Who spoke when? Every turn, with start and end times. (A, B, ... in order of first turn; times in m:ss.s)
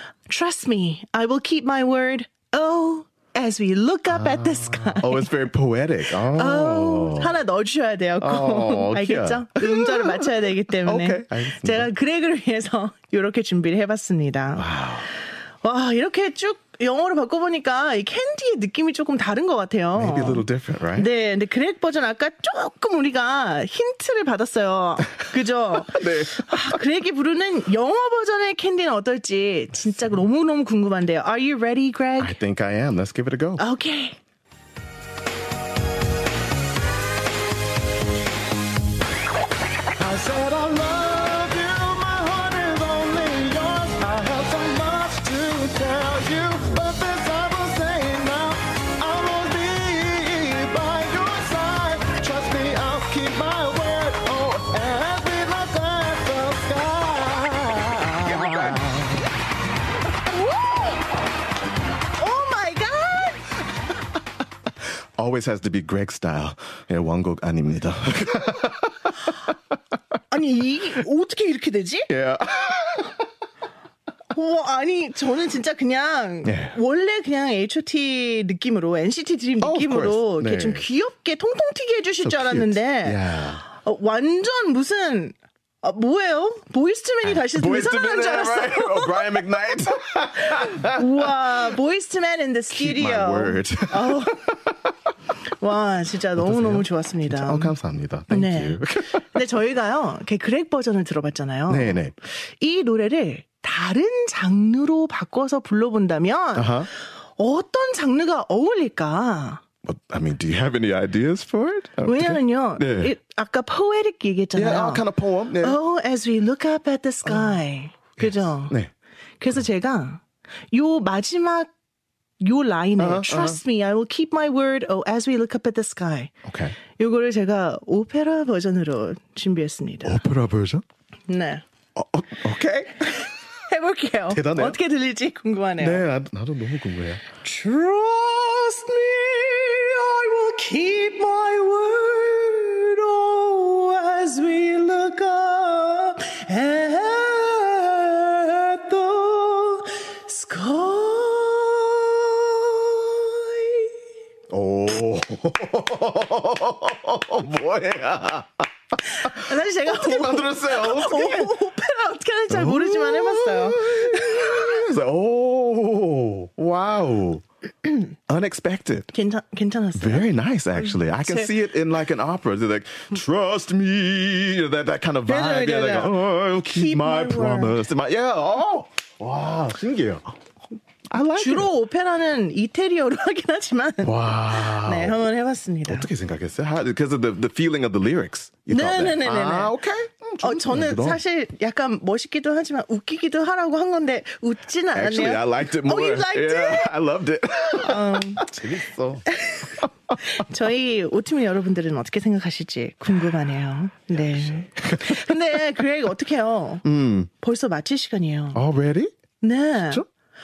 0:00.3-0:05.3 A
0:04.1-0:07.4 B
0:06.3-0:14.6 A
0:08.2-0:11.9 B
0:14.6-0:15.1 B
0:15.6-0:32.4 A
0:20.0-0:21.1 B
0:25.7-0:26.8 B
0:32.2-0:33.6 B
0:33.6-0:34.2 A
0:40.0-0:59.2 B
1:00.3-1:01.1 A
1:02.2-1:03.4 A
1:05.2-1:09.3 B
1:10.3-1:12.1 A
1:12.1-1:13.2 B
1:14.3-1:29.4 A
1:16.4-1:16.7 B
1:19.6-1:20.8 B
1:22.2-1:23.6 B
1:27.2-1:31.2 B
1:30.4-1:34.6 A
1:32.7-1:34.9 B
1:35.6-1:37.7 A
1:36.4-1:39.4 B
1:38.3-1:42.0 A
1:41.7-1:42.1 B
1:42.6-1:49.6 A
1:46.6-1:46.9 B
1:49.8-1:53.1 B
1:52.0-1:58.8 A
1:54.5-1:55.8 B
1:57.2-1:57.6 B
1:58.2-1:58.9 B
1:59.4-2:01.7 A
2:02.4-2:06.3 A
2:03.0-2:03.6 B
2:06.4-2:06.8 B
2:06.9-2:10.2 A
2:10.0-2:10.8 B
2:11.3-2:11.6 A
2:11.9-2:13.1 B
2:13.0-2:16.0 A
2:14.3-2:14.8 B
2:15.8-2:17.2 B
2:17.4-2:33.9 A
2:34.5-2:38.7 B
2:39.0-2:44.9 A
2:39.2-2:41.5 B
2:42.5-2:47.4 B
2:48.3-2:49.1 B
2:49.1-2:50.2 A
2:50.0-3:00.3 B
2:50.8-2:51.5 A
2:55.2-2:57.8 A
3:01.1-3:01.7 B
3:01.4-3:06.1 A
3:04.0-3:05.3 B
3:05.9-3:11.2 B
3:08.7-3:09.7 A
3:10.4-3:16.9 A
3:14.9-3:19.9 B
3:17.7-3:18.4 A
3:19.3-3:28.6 A
3:24.8-3:25.3 B
3:26.8-3:27.3 B
3:28.5-3:29.1 B
3:29.4-3:30.0 A